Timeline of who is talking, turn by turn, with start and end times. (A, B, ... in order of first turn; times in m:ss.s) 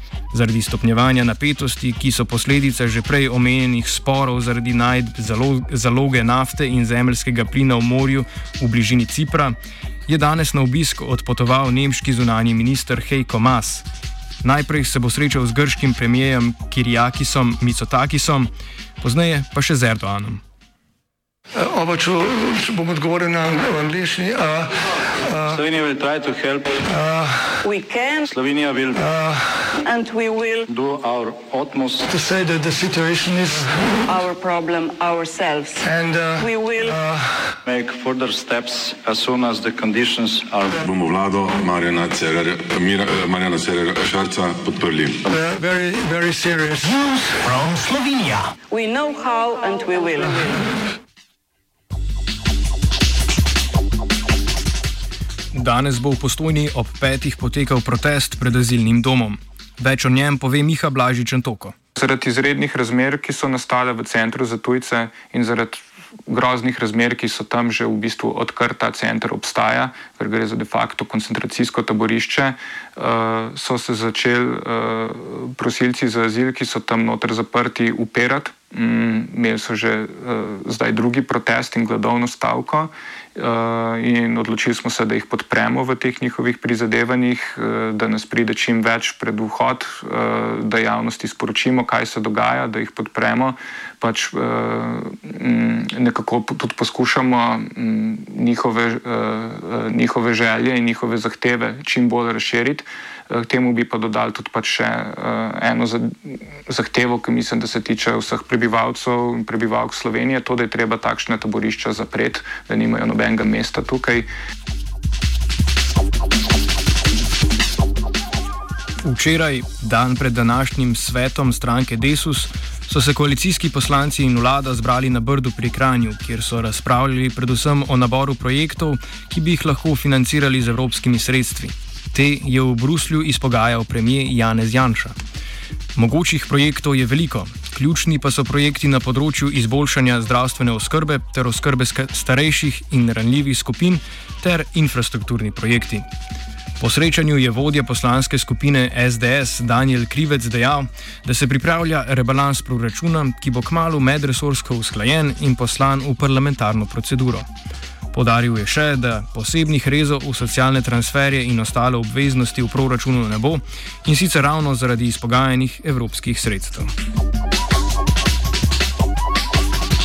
0:00.3-0:13.9 A
0:14.4-0:20.4 A
0:21.6-0:25.5 B
0:25.4-0:27.0 C
0:26.9-0:27.6 B
0:27.6-0:28.3 D
0:28.3-0:29.2 C
0:29.0-0:29.7 B
0:29.7-0:30.7 D
0:30.7-0:32.1 C
0:32.1-0:34.0 B
0:34.0-0:37.0 D
0:35.8-0:37.6 B
0:37.7-0:40.8 C
0:40.8-0:45.3 E
0:45.3-0:47.6 B
0:47.8-0:50.7 D
0:55.5-1:01.8 A
1:02.0-1:54.3 F
1:59.0-2:15.2 A
2:16.0-2:26.1 A
2:26.8-2:37.5 A
2:38.1-2:46.9 A